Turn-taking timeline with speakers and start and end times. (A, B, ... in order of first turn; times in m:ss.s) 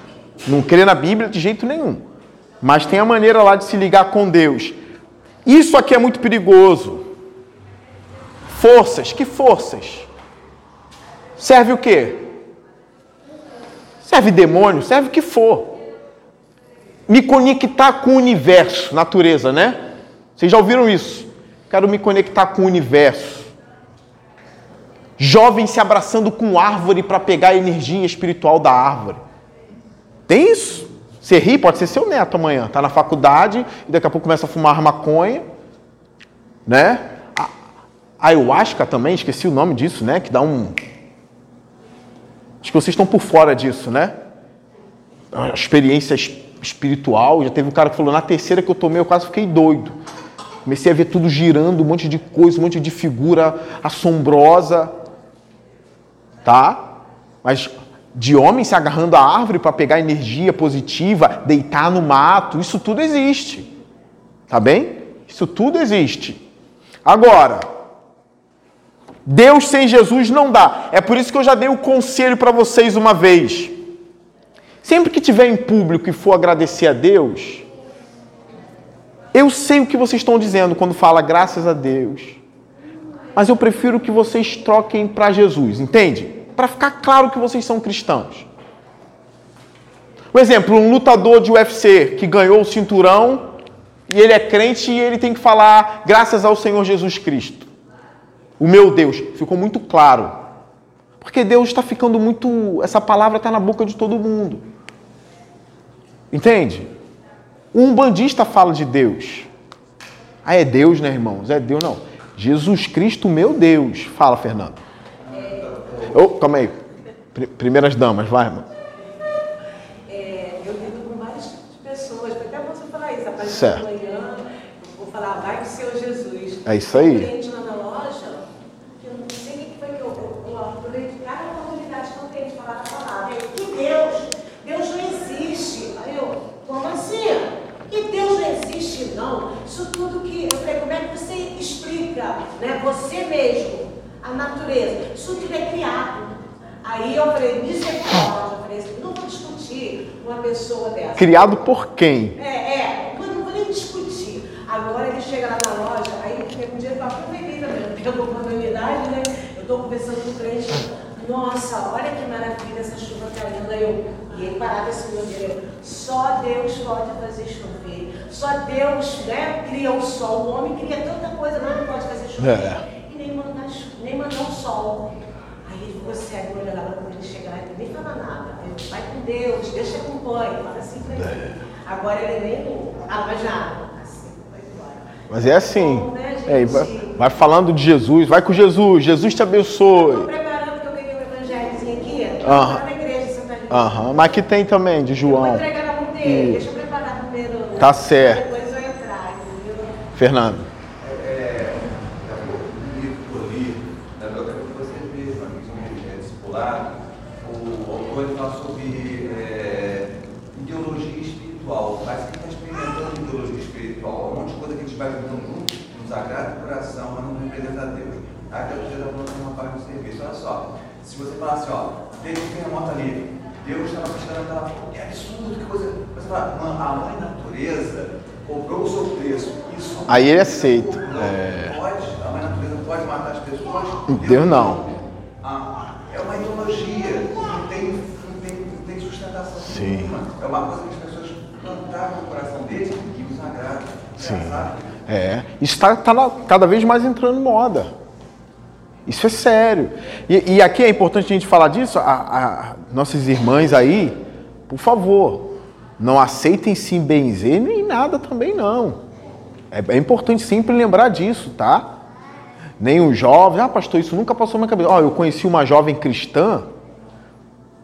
0:00.4-0:02.0 A
0:02.6-0:04.8 A
0:05.4-0:07.0 A
0:08.5-0:10.1 A
0:11.4-0:12.3 A
0:14.0-0:15.7 A
0:17.1-0:19.8 A
0:20.4-0:23.5 A
0:25.2-0:29.2 A
0:30.3-0:35.4 A
0:36.6-0:37.5 A
0:38.2-0:40.8 A
0:42.6-0:44.1 A
0:45.3-0:50.0 A
0:50.6-0:54.9 A
0:56.4-0:56.9 A
0:57.4-1:03.7 A
1:04.5-1:06.4 A
1:07.0-1:07.6 A
1:09.2-1:13.7 A
1:14.8-1:17.6 A
1:19.3-1:22.4 A
1:23.4-1:28.4 A
1:30.3-1:33.5 A
1:34.1-1:37.7 A
1:38.6-1:40.4 A
1:41.2-1:44.6 A
1:46.3-1:46.9 A
1:47.7-1:49.5 A
1:50.4-1:54.8 A
1:55.3-1:56.2 B
1:56.1-1:56.8 A
1:57.3-1:58.6 A
2:00.1-2:08.4 C
2:03.4-2:03.8 A
2:06.6-2:07.3 A
2:09.0-2:31.6 C
2:31.2-2:32.4 A
2:32.4-2:55.1 C
2:52.4-2:52.8 A
2:55.6-3:07.1 C
3:01.2-3:01.5 A
3:05.3-3:10.3 A
3:09.9-3:14.4 C
3:12.4-3:12.8 A
3:13.7-3:15.6 A
3:15.2-3:20.0 C
3:16.2-3:16.6 A
3:17.8-3:18.4 A
3:20.2-3:20.7 A
3:21.0-4:04.9 B
3:50.1-3:51.8 A
3:54.1-3:54.8 A
3:59.6-4:00.1 A
4:04.2-4:07.9 A
4:09.0-4:14.2 A
4:14.7-4:19.0 A
4:19.7-4:21.9 A
4:22.8-4:26.7 A